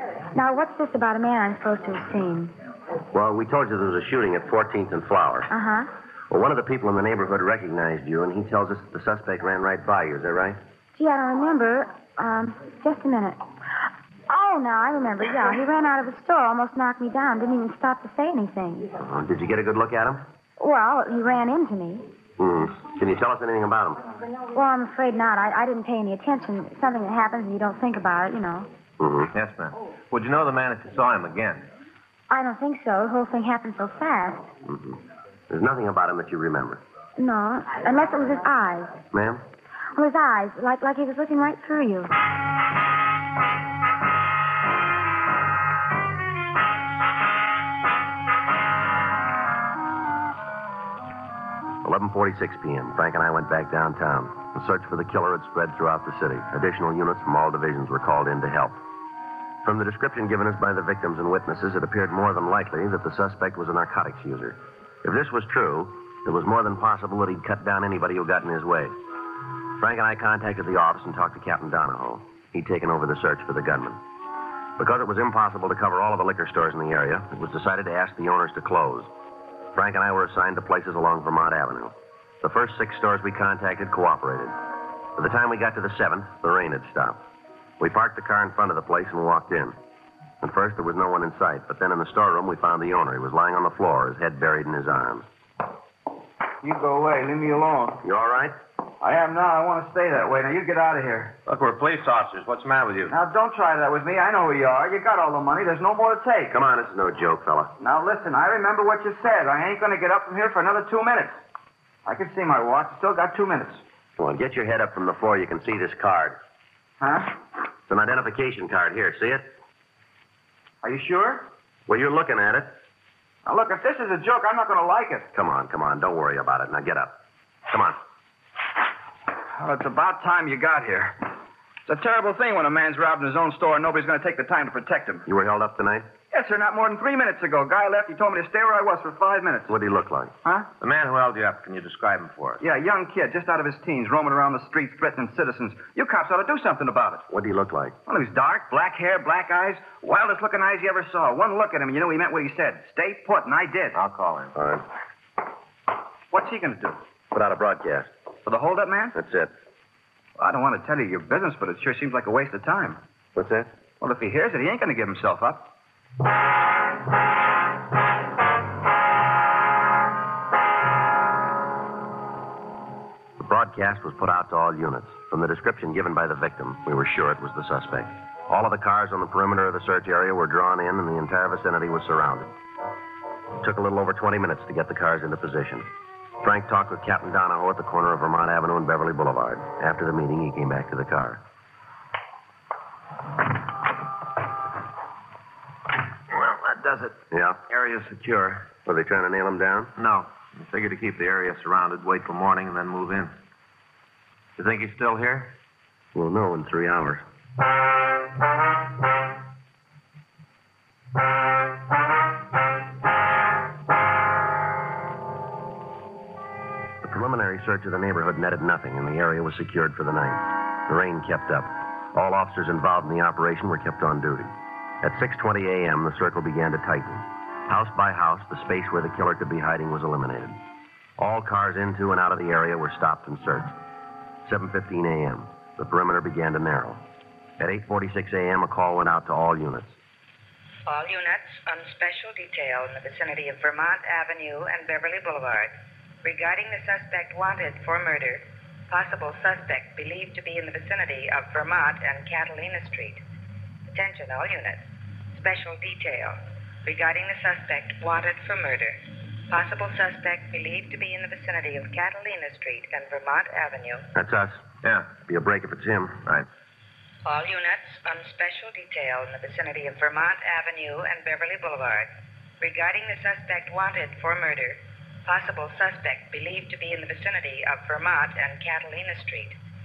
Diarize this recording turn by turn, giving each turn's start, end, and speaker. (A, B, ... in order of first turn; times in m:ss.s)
0:00.3-0:02.5 A
0:03.1-0:05.5 B
0:05.5-0:05.9 A
0:06.3-0:10.6 B
0:11.0-0:13.4 A
0:14.3-0:18.9 A
0:19.0-0:20.2 B
0:20.6-0:22.0 A
0:22.4-0:24.0 B
0:24.5-0:28.7 A
0:29.0-0:29.3 B
0:29.3-0:31.7 C
0:32.3-0:34.5 A
0:34.6-0:35.0 B
0:35.5-0:36.8 B
0:37.2-0:39.0 A
0:39.1-0:39.4 B
0:39.9-0:42.1 A
0:51.8-0:58.8 B
0:59.6-1:08.9 B
1:09.8-1:14.0 B
1:14.8-1:19.1 B
1:19.7-1:24.5 B
1:25.2-1:27.2 B
1:27.8-1:29.8 B
1:30.4-1:35.2 B
1:36.6-1:38.0 D
1:38.0-1:38.5 B
1:39.0-1:41.4 D
1:41.4-1:43.1 C
1:43.1-1:46.6 D
1:46.5-1:47.7 B
1:47.8-1:51.4 D
1:52.0-1:53.8 D
1:54.2-1:56.4 B
1:57.0-1:57.3 D
1:57.9-1:59.5 B
2:00.8-2:01.5 D
2:01.9-2:02.7 B
2:03.4-2:05.3 D
2:05.3-2:07.2 B
2:07.7-2:08.0 B
2:09.6-2:11.2 D
2:11.9-2:15.2 D
2:15.2-2:16.1 B
2:16.3-2:19.7 D
2:19.7-2:20.3 B
2:20.8-2:22.6 C
2:22.6-2:27.2 D
2:27.3-2:27.9 B
2:28.1-2:34.0 D
2:33.9-2:34.5 C
2:34.6-2:34.8 B
2:36.3-2:37.0 D
2:37.3-2:38.1 B
2:38.4-2:39.2 D
2:39.1-2:39.5 B
2:40.4-2:43.0 D
2:43.3-2:43.7 B
2:44.0-2:45.7 D
2:53.4-3:02.5 B
3:03.6-3:05.8 B
3:06.4-3:11.4 B
3:16.3-3:18.7 C
3:17.3-3:17.6 B
3:18.8-3:19.9 B
3:20.0-3:23.3 C
3:24.6-3:25.5 C
3:26.1-3:27.2 B
3:37.0-3:50.6 B
3:51.2-3:53.7 B
3:54.4-3:57.0 B
3:57.6-4:00.0 B
4:00.8-4:05.7 E
4:06.2-4:13.2 E
4:13.9-4:24.1 E
4:24.1-4:24.6 B
4:24.8-4:25.1 C
4:25.2-4:26.2 B
4:27.2-4:32.1 E
4:32.6-4:39.6 E